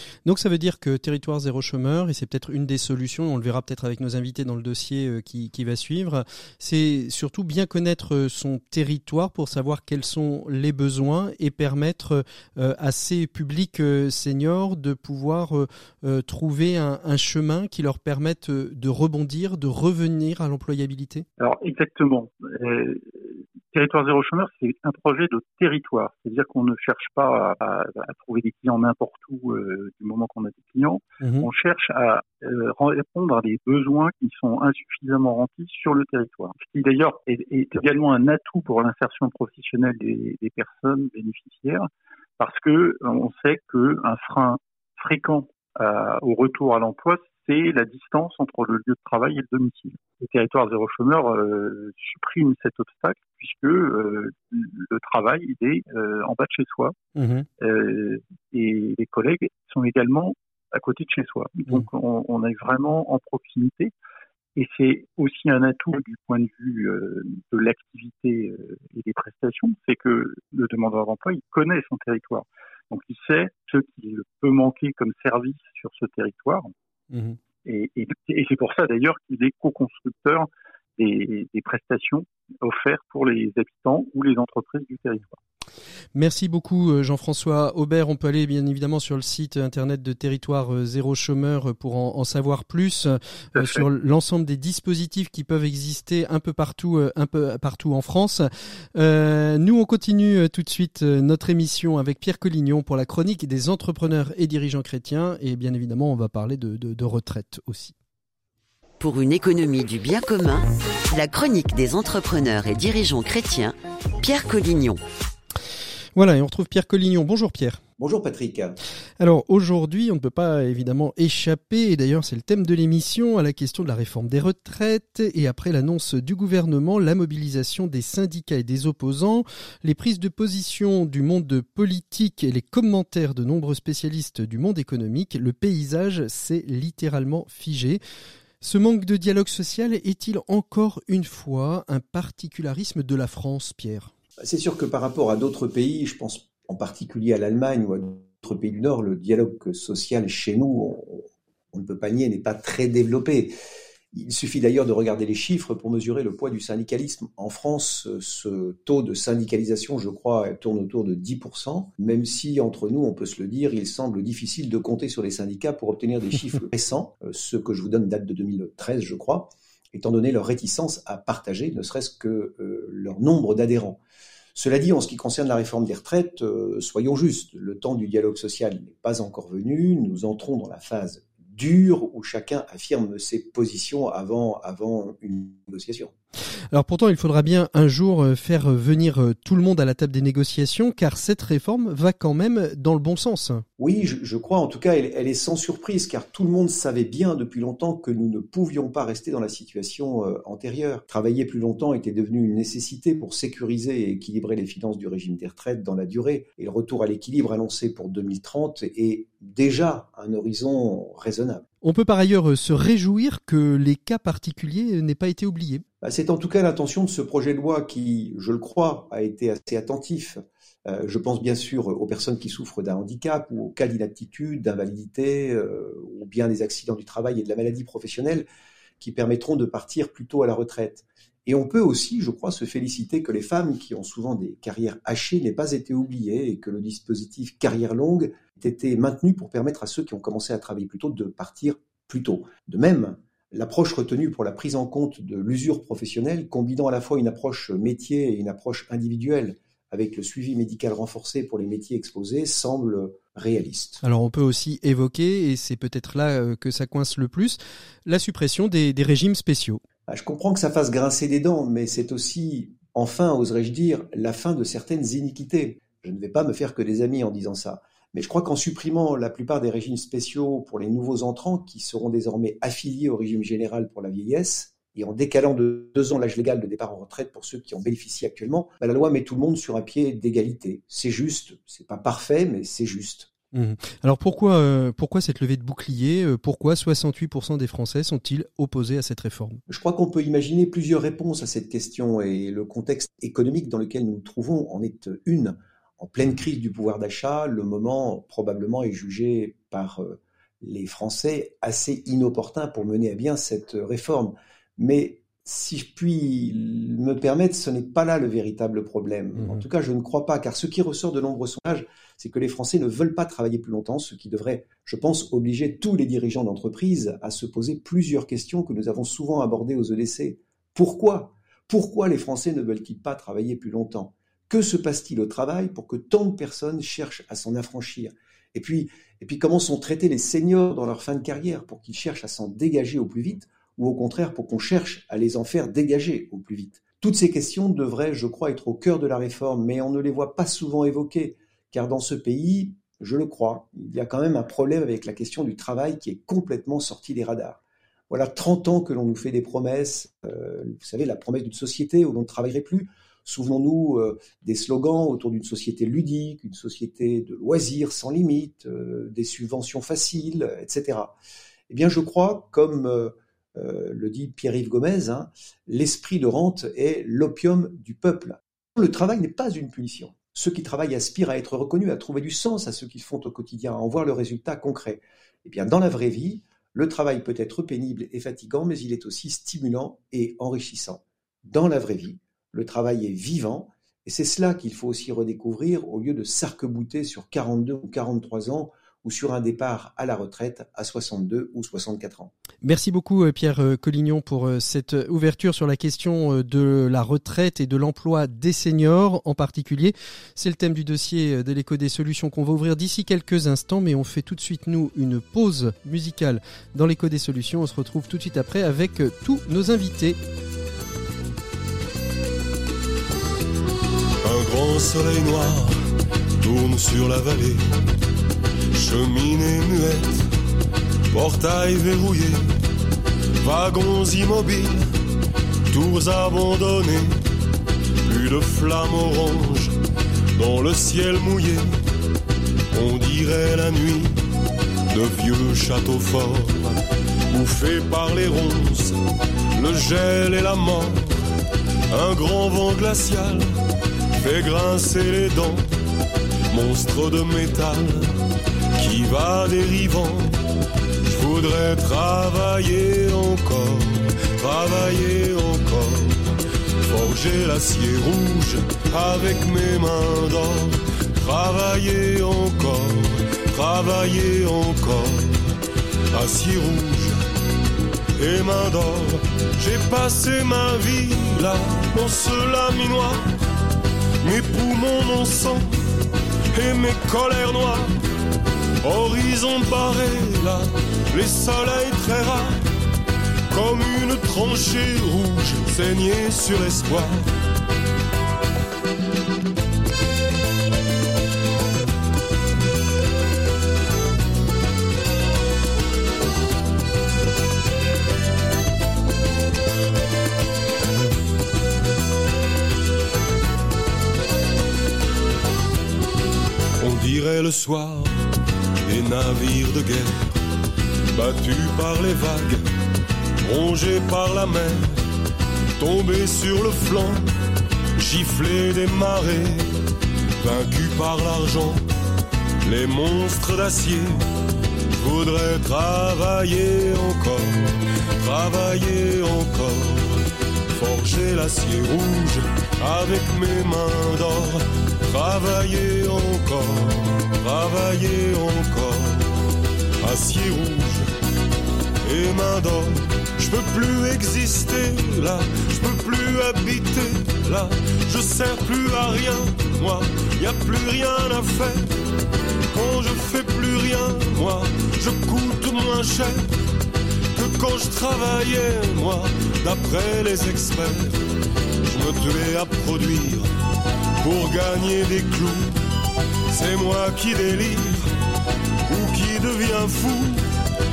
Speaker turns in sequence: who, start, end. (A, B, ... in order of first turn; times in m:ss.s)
0:00.2-0:21.2 A
0:21.4-0:41.8 B
0:31.2-0:31.5 A
0:42.4-0:56.9 B
0:57.2-0:57.5 A
0:57.6-1:03.9 B
1:04.6-1:16.7 B
1:17.1-1:17.4 A
1:17.6-1:25.4 B
1:26.1-1:47.9 A
1:33.6-1:33.8 B
1:49.0-1:55.0 C
1:56.2-1:57.8 A
1:58.0-1:58.8 D
1:59.2-2:18.0 A
2:18.6-2:24.1 A
2:24.4-2:33.5 D
2:34.1-2:54.0 D
2:54.5-3:06.1 D
3:06.7-3:13.6 A
3:13.8-3:31.6 D
3:31.8-3:35.8 A
3:36.0-3:48.5 D
3:49.0-4:14.0 D
4:14.0-4:19.8 A
4:20.1-4:43.3 D
4:43.5-4:49.6 A
4:49.7-6:01.2 D
5:09.4-5:09.6 A
6:01.7-6:32.3 D
6:32.6-6:50.2 A
6:54.2-6:55.8 E
6:56.4-6:57.6 E
6:58.7-7:00.3 E
7:01.1-7:02.4 E
7:03.4-7:04.9 E
7:05.7-7:07.2 E
7:08.0-7:09.7 E
7:10.3-7:11.8 E
7:12.7-7:14.2 E
7:14.9-7:16.8 E
7:17.3-7:19.0 E
7:19.6-7:21.2 E
7:21.9-7:23.5 E
7:24.2-7:25.7 E
7:26.5-7:28.2 E
7:28.8-7:30.3 E
7:31.0-7:45.5 E
7:46.1-7:47.2 E
7:48.2-7:53.2 E
7:54.2-7:55.8 E
7:56.5-7:58.0 E
7:58.8-8:02.6 E
8:03.5-8:07.3 E
8:26.8-8:28.1 E
8:28.8-8:30.3 E
8:31.1-8:32.6 E
8:33.4-8:35.0 E
8:35.8-8:37.2 E
8:38.0-8:39.8 E
8:40.4-8:41.8 E
8:42.6-8:44.2 E
8:45.0-8:59.3 E
9:00.0-9:01.1 E
9:02.0-9:12.0 E
9:12.7-9:16.5 E
9:17.3-9:21.2 E
9:21.8-9:23.5 E
9:24.2-9:25.8 E
9:26.5-9:28.1 E
9:28.9-9:30.5 E